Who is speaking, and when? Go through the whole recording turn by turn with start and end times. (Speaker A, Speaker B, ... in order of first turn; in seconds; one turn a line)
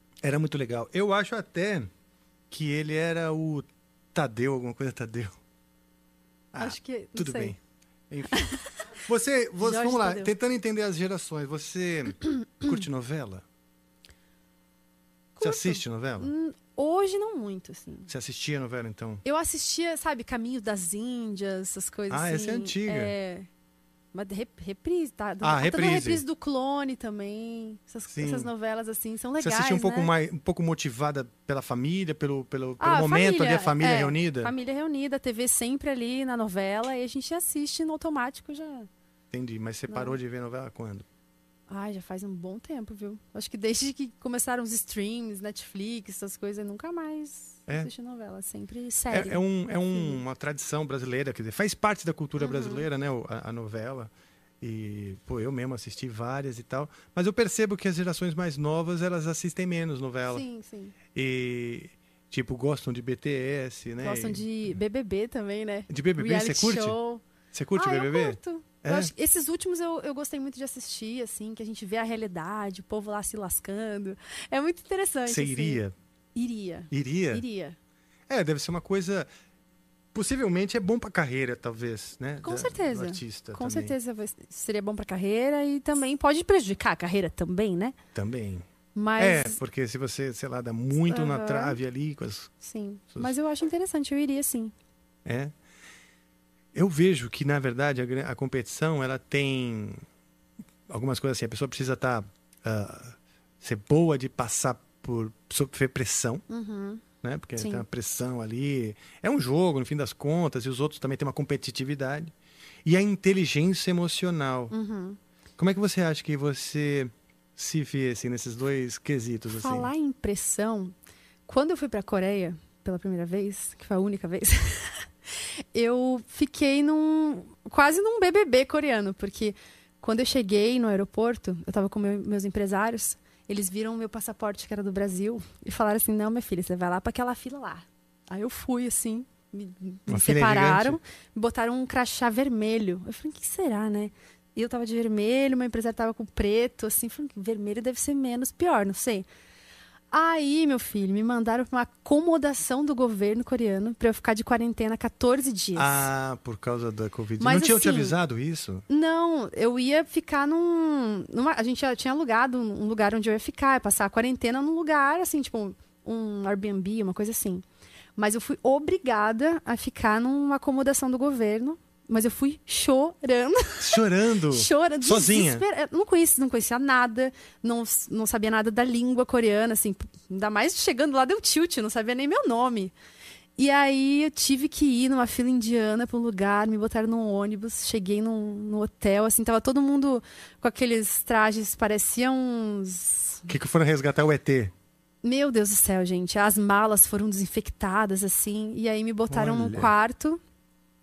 Speaker A: 0.2-1.9
Speaker A: 2.5-5.4
Speaker A: 6.5-7.6
Speaker B: 6.6-7.5
Speaker A: 8.1-8.4
Speaker B: 8.3-8.6
Speaker A: 9.1-13.4
Speaker B: 9.6-10.3
Speaker B: 15.4-18.1
Speaker A: 15.4-16.3
Speaker A: 18.1-19.2
Speaker B: 19.2-23.5
Speaker A: 22.1-23.1
Speaker B: 24.1-30.1
Speaker A: 25.4-26.2
Speaker A: 28.1-28.5
Speaker A: 29.4-34.5
Speaker B: 32.8-38.9
Speaker A: 39.3-41.1
Speaker B: 39.9-40.2
Speaker B: 41.7-49.4
Speaker A: 49.1-60.5
Speaker B: 49.9-50.2
Speaker B: 52.4-52.9
Speaker B: 60.3-61.0
Speaker A: 61.1-64.5
Speaker B: 64.0-67.2
Speaker A: 65.9-67.0
Speaker A: 67.5-69.1
Speaker B: 67.8-75.8
Speaker A: 75.3-75.9
Speaker B: 76.3-77.8
Speaker A: 76.9-77.5
Speaker A: 78.3-79.3
Speaker A: 80.1-83.9
Speaker B: 82.4-88.0
Speaker A: 88.2-88.7
Speaker B: 89.0-89.6
Speaker A: 89.2-92.5
Speaker B: 91.1-91.8
Speaker B: 92.6-94.7
Speaker A: 95.2-95.5
Speaker A: 96.7-100.0
Speaker A: 100.9-106.4
Speaker B: 106.5-107.0
Speaker A: 107.2-112.3
Speaker B: 107.6-107.8
Speaker A: 112.8-114.7
Speaker B: 114.7-115.2
Speaker A: 115.6-119.9
Speaker B: 119.6-121.0
Speaker B: 121.5-125.1
Speaker B: 125.7-149.3
Speaker A: 140.1-141.0
Speaker B: 150.1-156.1
Speaker A: 155.8-158.8
Speaker B: 157.4-158.2
Speaker B: 158.9-167.6
Speaker B: 168.2-182.9
Speaker A: 173.8-175.7
Speaker B: 183.6-193.4
Speaker A: 193.5-194.7
Speaker B: 195.2-200.4
Speaker A: 199.3-199.9